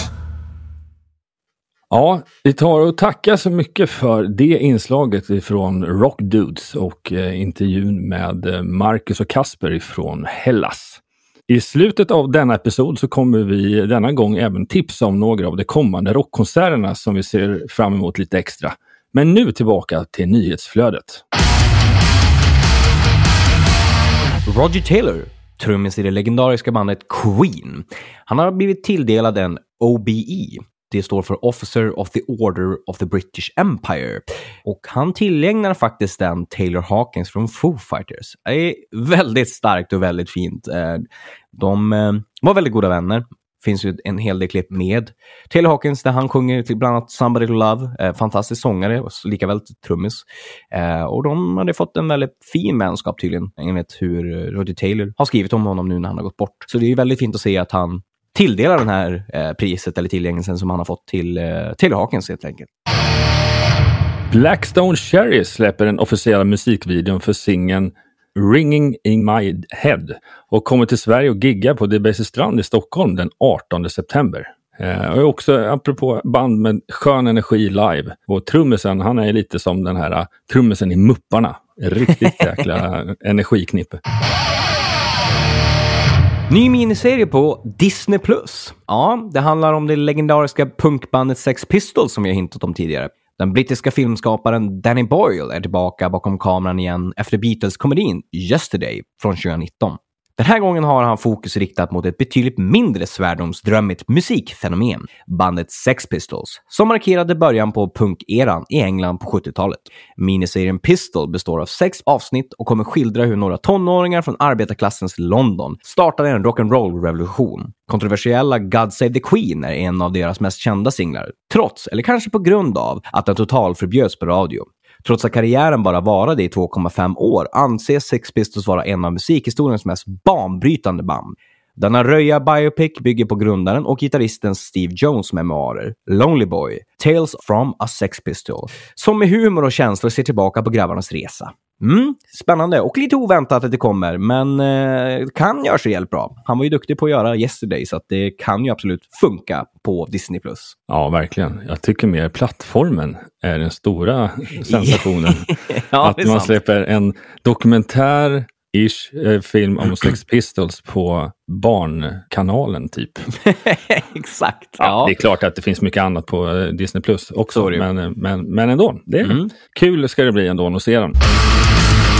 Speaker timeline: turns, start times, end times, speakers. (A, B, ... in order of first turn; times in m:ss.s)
0:01.9-0:21.2 A
0:24.4-1:02.7 B
1:04.3-1:24.0 A
1:26.5-2:30.7 B
2:30.9-2:43.2 A
2:34.7-2:36.6 B
2:43.4-2:45.2 B
2:44.8-2:51.2 A
2:47.5-2:47.8 B
2:49.2-2:49.5 B